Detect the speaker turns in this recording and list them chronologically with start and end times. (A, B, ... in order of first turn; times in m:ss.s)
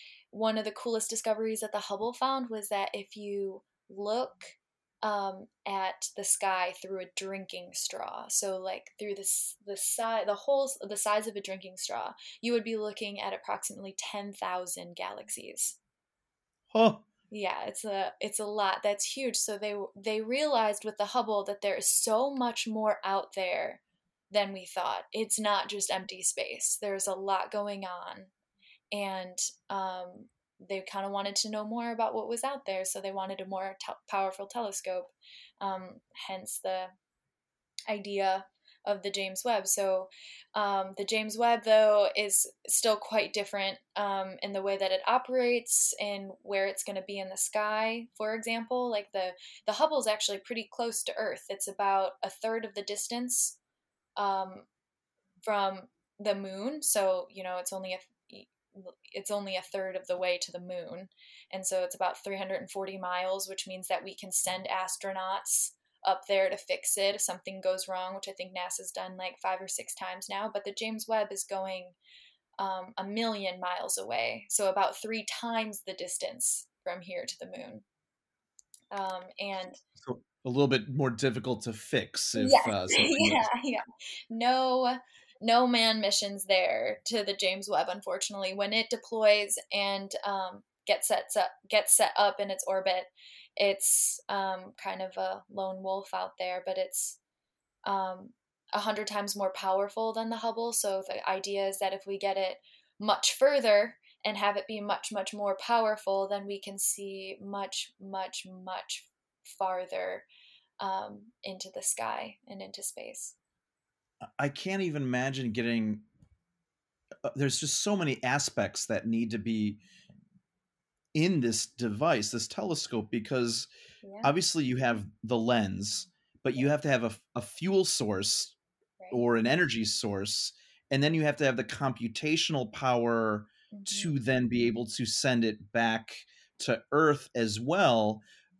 0:00.3-0:15.8 A
0:16.7-0:17.0 B
0:17.3-0:28.3 A
0:28.9-0:36.9 A
0:37.9-0:53.6 A
0:54.2-0:54.7 A
0:55.4-1:12.0 A
1:12.6-1:17.8 A
1:18.9-1:19.8 A
1:20.0-1:23.5 B
1:22.4-1:37.2 A
1:37.8-1:50.3 A
1:50.8-1:53.3 A
1:54.4-1:56.0 B
1:57.2-1:59.8 B
2:01.1-2:03.7 B
2:04.0-2:04.3 A
2:04.2-2:08.6 B
2:09.1-2:18.2 B
2:13.7-2:14.1 A